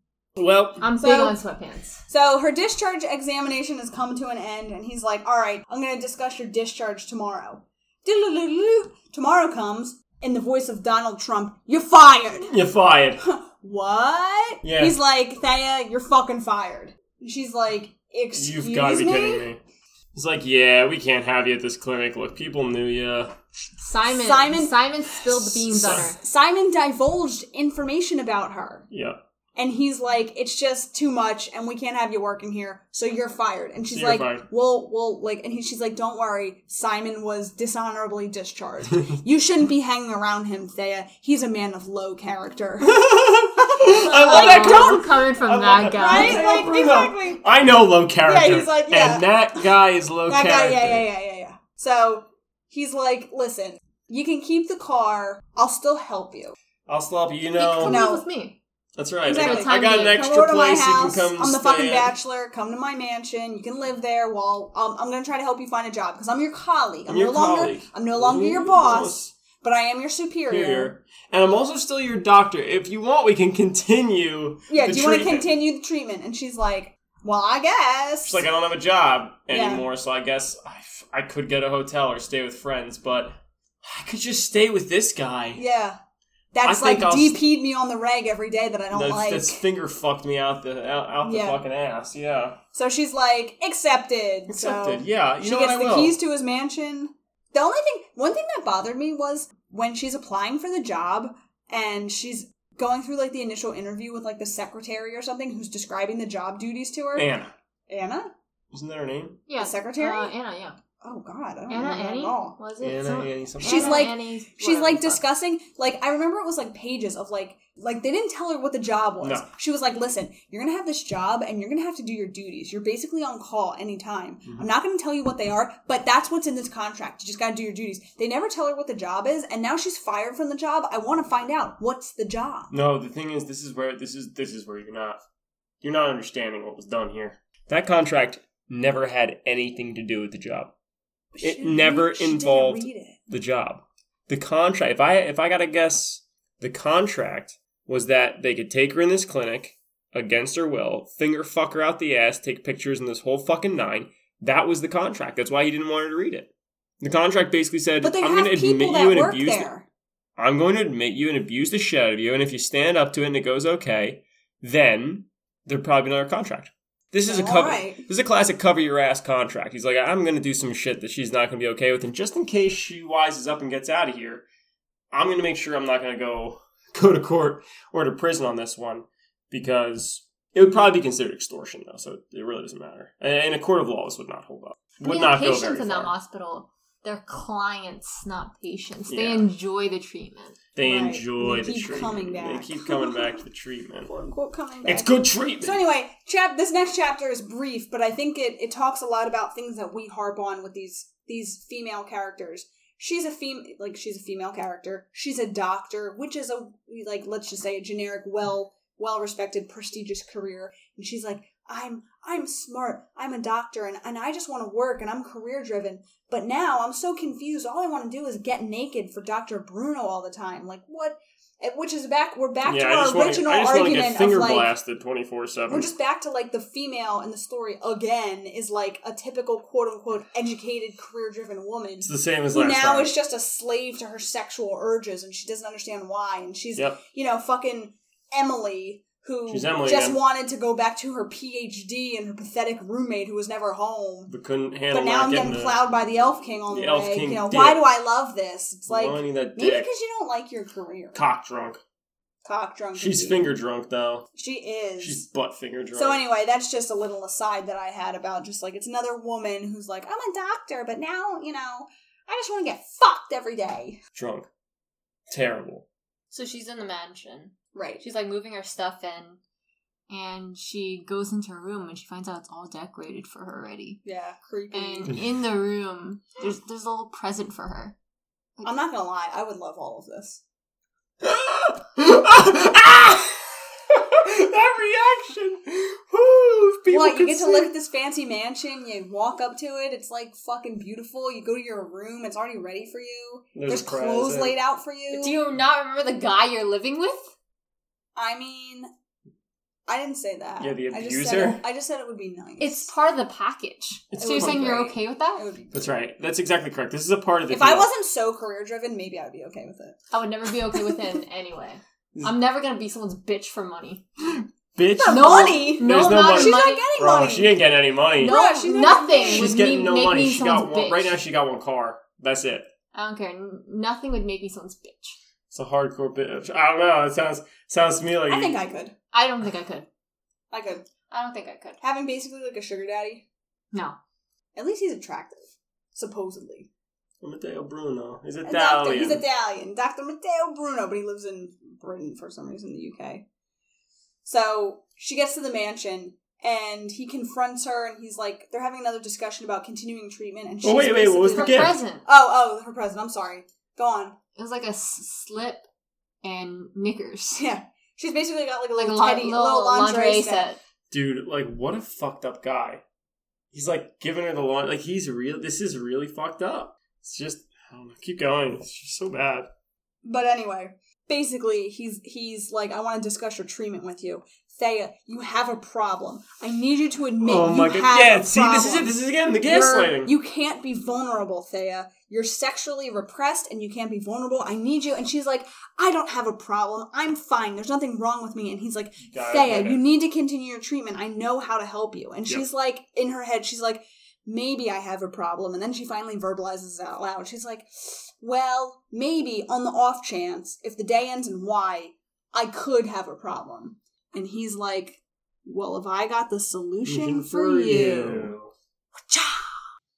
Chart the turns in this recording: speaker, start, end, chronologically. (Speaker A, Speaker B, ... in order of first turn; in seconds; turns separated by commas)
Speaker A: 0.4-0.8, Speaker B: 0.8-2.0, Speaker C: 1.0-1.4, Speaker C: 2.1-12.5, Speaker A: 12.5-13.2, Speaker C: 13.2-19.5, Speaker A: 14.6-15.0, Speaker A: 18.3-19.6, Speaker A: 20.1-23.3, Speaker B: 23.8-26.2, Speaker C: 24.1-24.8, Speaker A: 25.3-26.1, Speaker C: 25.8-28.9, Speaker A: 28.9-29.2, Speaker C: 29.6-43.0, Speaker A: 33.9-34.5, Speaker A: 42.8-51.1, Speaker C: 43.6-45.1, Speaker B: 44.0-46.5, Speaker C: 46.0-47.4, Speaker C: 48.2-49.3, Speaker C: 50.3-56.6, Speaker A: 56.9-58.0, Speaker B: 57.6-58.6, Speaker C: 57.8-58.2, Speaker A: 59.0-62.1, Speaker C: 59.2-70.9, Speaker B: 59.3-60.2, Speaker A: 67.1-69.3, Speaker A: 70.5-75.5, Speaker C: 74.7-78.4, Speaker A: 78.2-85.6, Speaker C: 79.5-79.8, Speaker C: 85.5-86.0, Speaker C: 86.5-89.6, Speaker A: 86.6-87.4, Speaker A: 88.9-92.6, Speaker C: 91.2-91.6, Speaker C: 92.7-107.3, Speaker A: 94.5-96.2, Speaker A: 107.2-107.5, Speaker C: 107.9-108.3, Speaker A: 108.7-109.4, Speaker B: 109.5-110.8, Speaker C: 109.6-110.3, Speaker C: 111.0-112.6, Speaker B: 111.7-115.2, Speaker A: 112.8-114.1, Speaker C: 113.6-132.7, Speaker A: 119.2-119.5, Speaker A: 132.7-135.2, Speaker A: 135.8-140.7, Speaker C: 141.3-143.2, Speaker A: 141.4-159.7, Speaker C: 158.0-159.9, Speaker A: 160.4-174.4, Speaker C: 167.3-168.1, Speaker A: 175.1-186.1, Speaker B: 185.0-190.6, Speaker A: 189.1-189.5, Speaker A: 190.8-194.1, Speaker C: 190.8-193.4, Speaker C: 194.1-224.7, Speaker A: 194.9-195.8, Speaker A: 222.7-225.9, Speaker C: 225.7-244.3, Speaker A: 232.0-233.1, Speaker A: 239.5-240.2, Speaker A: 244.3-245.8, Speaker C: 244.9-251.2, Speaker A: 246.7-247.8, Speaker A: 248.9-249.9, Speaker A: 251.2-251.8, Speaker C: 252.5-253.6, Speaker A: 252.9-254.3, Speaker C: 254.3-255.2, Speaker A: 255.0-256.2, Speaker C: 255.9-264.0, Speaker A: 264.1-264.5, Speaker A: 265.3-265.9, Speaker B: 266.3-269.4, Speaker C: 267.8-268.0, Speaker B: 270.1-274.0, Speaker C: 274.1-275.1, Speaker B: 274.7-277.9, Speaker C: 278.6-280.4, Speaker A: 281.2-287.7, Speaker C: 286.9-295.4, Speaker A: 293.6-294.6, Speaker B: 295.1-297.3, Speaker C: 298.2-298.9, Speaker C: 299.9-302.9, Speaker A: 300.6-301.6, Speaker B: 302.6-305.5, Speaker A: 304.1-304.8, Speaker C: 304.2-305.9, Speaker A: 305.7-307.9, Speaker C: 307.5-310.0, Speaker B: 310.1-314.0, Speaker A: 314.2-318.4, Speaker C: 315.0-317.6, Speaker B: 315.1-316.9, Speaker B: 318.2-321.2, Speaker C: 318.2-319.5, Speaker A: 319.3-322.7, Speaker B: 322.9-325.2, Speaker A: 325.5-328.6, Speaker C: 328.3-328.9, Speaker B: 329.1-329.9, Speaker C: 330.5-330.9, Speaker B: 331.1-331.8, Speaker C: 331.8-333.2, Speaker B: 333.7-334.0, Speaker C: 334.6-336.7, Speaker A: 337.2-339.2, Speaker C: 338.4-343.2, Speaker C: 344.2-354.2, Speaker A: 350.6-351.8, Speaker B: 351.3-352.1, Speaker B: 354.4-355.7, Speaker B: 356.2-357.4, Speaker C: 357.4-360.5, Speaker B: 358.8-360.6, Speaker A: 360.9-362.8, Speaker A: 363.5-369.5, Speaker C: 370.0-378.9, Speaker A: 377.2-380.1, Speaker C: 379.4-408.4, Speaker A: 389.0-389.9, Speaker A: 406.9-408.5, Speaker C: 409.1-409.6